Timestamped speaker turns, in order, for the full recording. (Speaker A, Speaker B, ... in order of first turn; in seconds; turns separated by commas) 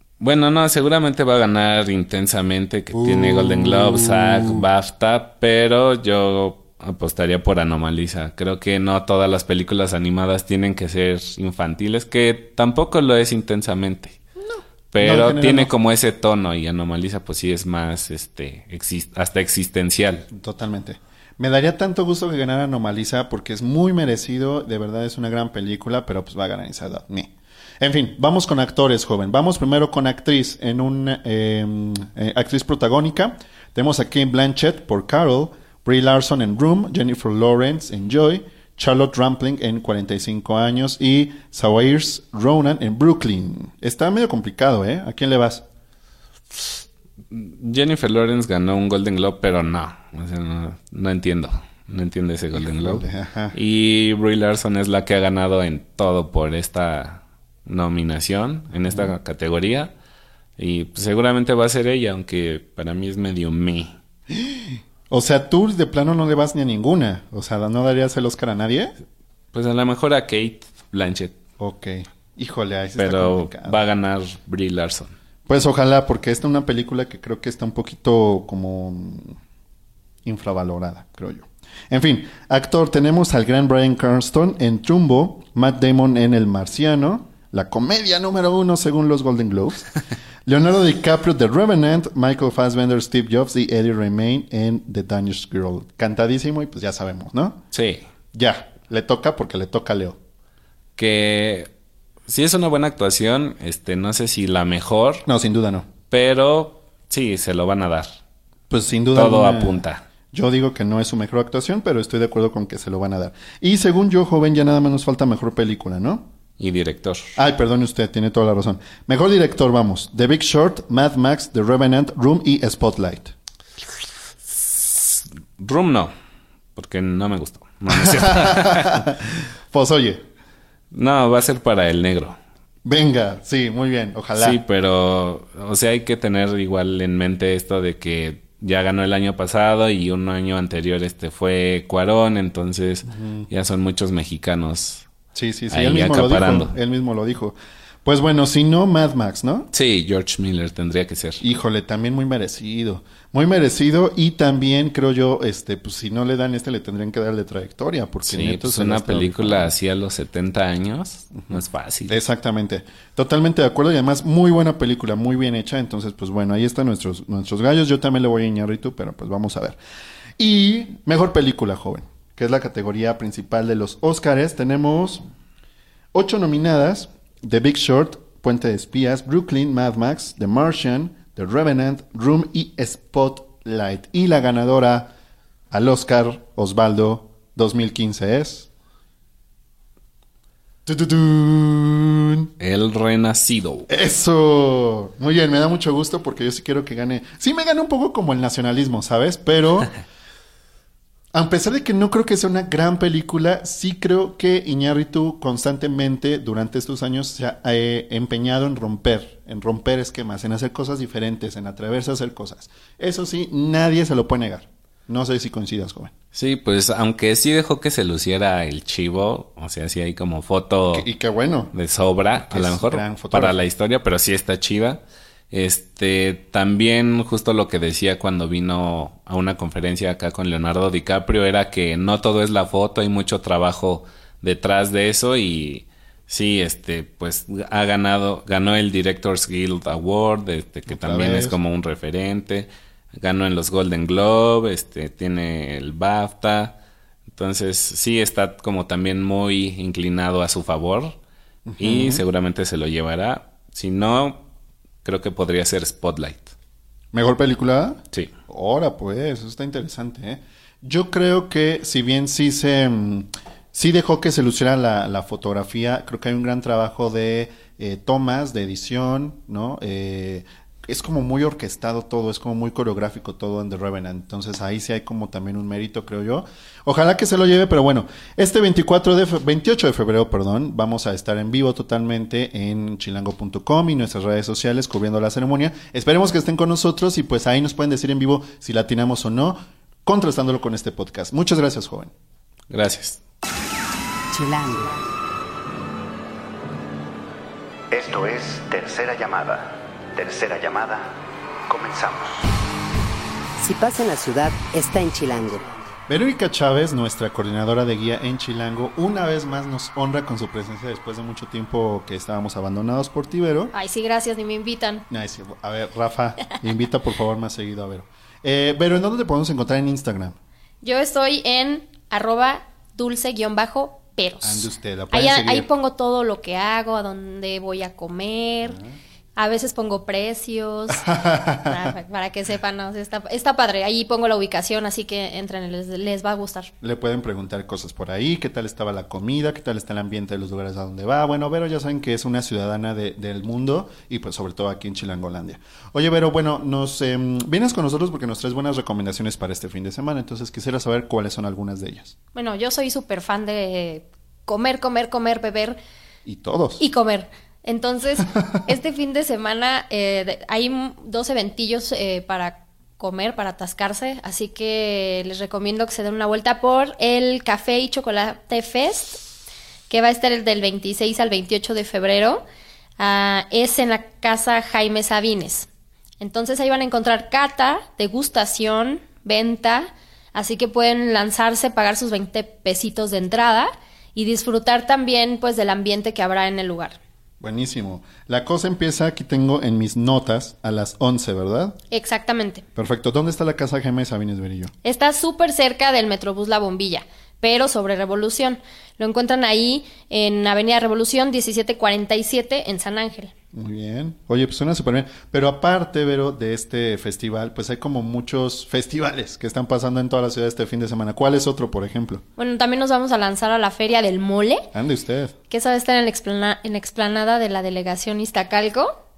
Speaker A: 0.2-14.2, Speaker B: 2.9-4.6, Speaker B: 14.4-15.7, Speaker A: 14.9-20.3, Speaker B: 20.3-45.6, Speaker A: 47.3-59.9, Speaker B: 52.5-53.6, Speaker A: 60.6-63.9, Speaker B: 64.3-68.9, Speaker A: 69.5-71.3, Speaker B: 71.6-73.8, Speaker A: 73.0-75.2, Speaker B: 75.5-79.4, Speaker B: 80.2-89.9, Speaker B: 90.5-97.6, Speaker A: 97.7-98.0, Speaker B: 98.3-100.2, Speaker A: 101.0-101.7, Speaker A: 102.3-105.2, Speaker B: 105.3-105.9, Speaker A: 106.1-108.2, Speaker B: 108.7-116.3, Speaker A: 109.1-110.0, Speaker A: 116.6-117.3, Speaker B: 117.4-123.3, Speaker A: 124.5-126.1, Speaker A: 126.8-129.0, Speaker B: 127.9-130.2, Speaker A: 130.9-132.4, Speaker B: 132.8-134.6, Speaker A: 134.4-145.1, Speaker B: 143.1-143.5, Speaker B: 145.3-149.7, Speaker A: 145.7-146.8, Speaker A: 149.7-151.4, Speaker B: 151.4-159.7, Speaker A: 158.2-162.2, Speaker B: 161.4-169.8, Speaker B: 170.4-175.2, Speaker B: 176.1-185.1, Speaker B: 185.7-188.7, Speaker B: 190.8-192.5, Speaker A: 192.6-193.9, Speaker B: 193.9-199.9, Speaker B: 201.3-216.1, Speaker A: 216.3-221.1, Speaker B: 220.9-221.7, Speaker A: 221.7-246.8, Speaker B: 222.3-223.6, Speaker B: 240.9-241.6, Speaker A: 247.3-251.2, Speaker B: 251.7-252.2, Speaker A: 251.8-254.4, Speaker A: 255.0-256.5, Speaker B: 257.1-292.1, Speaker A: 292.7-293.2, Speaker C: 294.3-295.0, Speaker D: 297.9-302.5, Speaker C: 303.6-305.7, Speaker B: 306.1-313.7, Speaker E: 313.7-315.1, Speaker B: 315.1-320.4, Speaker E: 320.8-328.8, Speaker B: 324.4-325.7, Speaker B: 328.6-329.0, Speaker E: 329.4-336.7, Speaker B: 330.9-331.9, Speaker B: 336.8-352.1, Speaker E: 352.4-355.8, Speaker B: 356.2-356.8, Speaker E: 356.8-369.2, Speaker E: 369.9-372.4, Speaker E: 373.0-375.7, Speaker E: 376.2-387.0, Speaker B: 387.4-391.8, Speaker E: 391.9-392.6, Speaker B: 392.8-394.7, Speaker E: 394.8-403.3, Speaker B: 403.5-412.2, Speaker E: 412.4-414.7, Speaker B: 414.7-415.4, Speaker E: 415.5-419.0